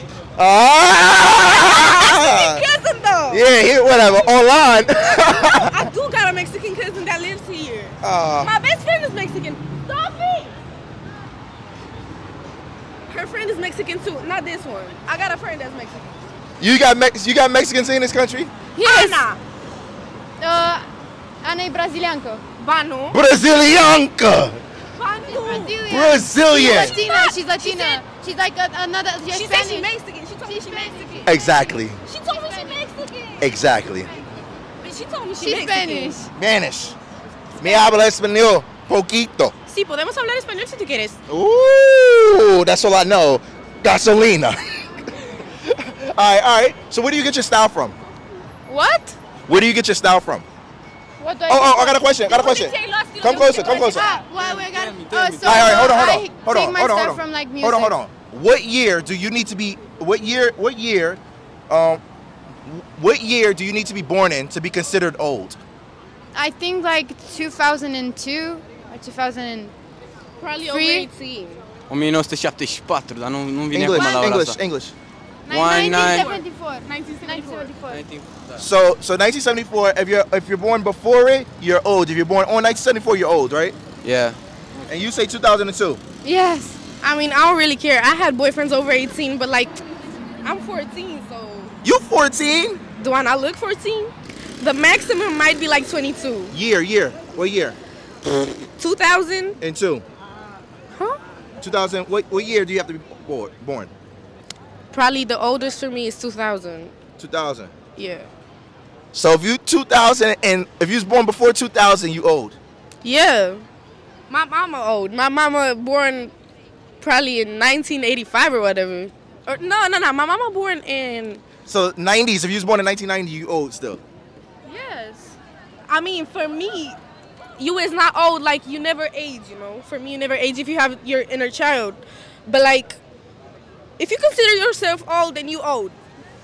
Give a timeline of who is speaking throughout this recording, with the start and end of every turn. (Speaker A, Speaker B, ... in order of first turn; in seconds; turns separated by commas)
Speaker A: 0.4-2.6, Speaker B: 1.5-3.5, Speaker A: 3.3-5.7, Speaker B: 4.9-10.6, Speaker A: 8.0-8.5, Speaker B: 13.1-16.1, Speaker A: 16.6-18.5, Speaker C: 18.8-19.3, Speaker B: 18.8-19.4, Speaker C: 20.4-20.9, Speaker C: 21.4-22.4, Speaker B: 22.6-23.2, Speaker A: 23.1-24.6, Speaker B: 25.0-25.8, Speaker C: 25.3-29.9, Speaker A: 25.9-27.0, Speaker B: 26.5-28.0, Speaker B: 29.3-31.3, Speaker C: 30.4-31.3, Speaker A: 31.2-32.0, Speaker B: 32.0-33.5, Speaker C: 32.3-32.8, Speaker A: 33.4-34.1, Speaker B: 34.8-36.2, Speaker C: 35.4-36.3, Speaker A: 36.4-37.0, Speaker A: 37.6-39.5, Speaker B: 37.6-37.9, Speaker B: 39.7-41.2, Speaker A: 41.3-44.6, Speaker A: 45.5-48.0, Speaker C: 48.7-49.2, Speaker A: 49.5-50.5, Speaker C: 51.2-58.0, Speaker A: 51.5-54.1, Speaker B: 52.3-54.2, Speaker D: 54.3-56.0, Speaker A: 55.4-62.0, Speaker A: 62.6-65.6, Speaker C: 66.3-69.7, Speaker B: 70.4-71.7, Speaker C: 70.7-71.1, Speaker D: 71.9-74.6, Speaker A: 73.7-74.9, Speaker C: 74.0-74.2, Speaker C: 75.5-78.0, Speaker D: 75.5-76.3, Speaker B: 75.7-77.8, Speaker D: 77.8-78.6, Speaker A: 78.6-83.8, Speaker D: 84.0-84.4, Speaker A: 84.9-86.0, Speaker C: 86.2-86.8, Speaker B: 87.0-89.8, Speaker B: 90.4-91.7, Speaker A: 91.8-92.8, Speaker B: 93.0-96.5, Speaker A: 96.5-97.8, Speaker B: 98.6-99.6, Speaker A: 99.6-100.0, Speaker B: 100.9-101.2, Speaker A: 101.6-103.9, Speaker B: 104.9-106.9, Speaker A: 107.2-107.7, Speaker B: 108.0-108.3, Speaker A: 109.1-112.6, Speaker B: 113.0-113.6, Speaker B: 114.3-116.3, Speaker B: 117.0-121.4, Speaker A: 121.7-124.0, Speaker C: 124.7-125.3, Speaker B: 125.9-127.0, Speaker B: 127.6-133.0, Speaker B: 134.0-135.9